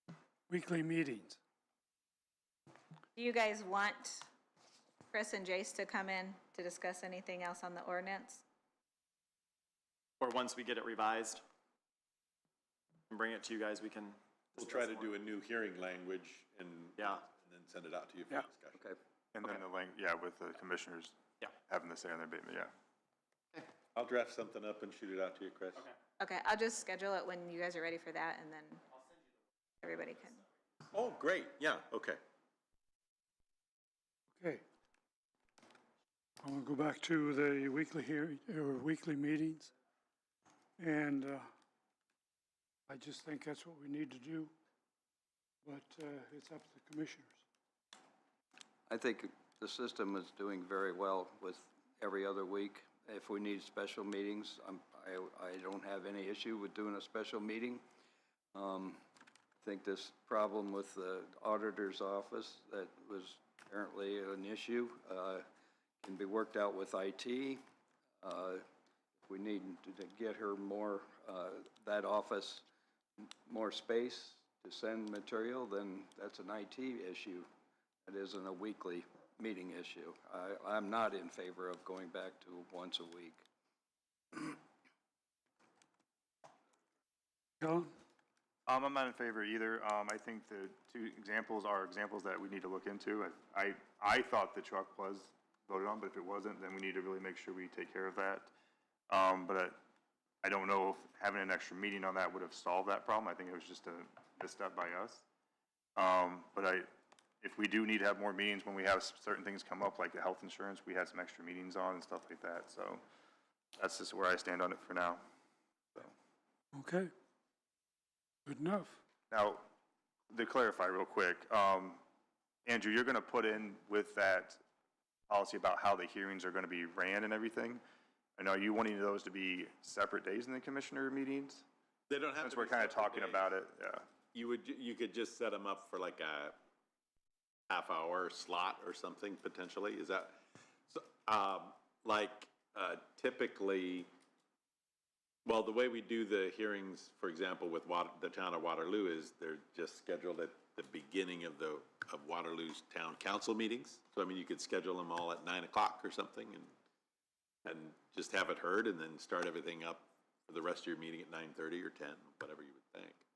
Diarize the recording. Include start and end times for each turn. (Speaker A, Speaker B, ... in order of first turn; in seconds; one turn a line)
Speaker A: 0.5-1.4
Speaker B: 3.1-4.3
Speaker B: 5.1-8.4
Speaker C: 10.2-11.4
Speaker C: 13.1-15.1
Speaker D: 14.6-18.8
Speaker C: 17.0-17.2
Speaker E: 19.3-22.7
Speaker D: 23.9-25.9
Speaker B: 26.2-28.8
Speaker B: 29.8-30.4
Speaker D: 30.9-32.2
Speaker A: 36.4-39.7
Speaker A: 40.8-41.5
Speaker A: 42.9-44.5
Speaker A: 45.6-47.4
Speaker F: 48.9-57.8
Speaker F: 58.5-59.0
Speaker F: 59.6-65.4
Speaker F: 66.0-67.6
Speaker F: 68.2-68.6
Speaker F: 69.2-72.6
Speaker F: 73.2-77.5
Speaker F: 78.0-83.4
Speaker A: 87.6-87.9
Speaker E: 88.7-98.5
Speaker E: 99.1-99.8
Speaker E: 100.4-105.2
Speaker E: 106.0-106.9
Speaker E: 107.4-113.0
Speaker E: 113.8-115.2
Speaker A: 116.7-117.1
Speaker A: 118.5-119.0
Speaker E: 119.3-119.6
Speaker E: 120.3-122.0
Speaker E: 122.6-124.6
Speaker E: 125.3-127.8
Speaker E: 128.4-131.6
Speaker D: 132.1-133.5
Speaker E: 132.4-134.1
Speaker D: 134.3-136.6
Speaker D: 137.7-140.4
Speaker D: 140.9-144.1
Speaker D: 145.4-156.7
Speaker D: 157.6-163.2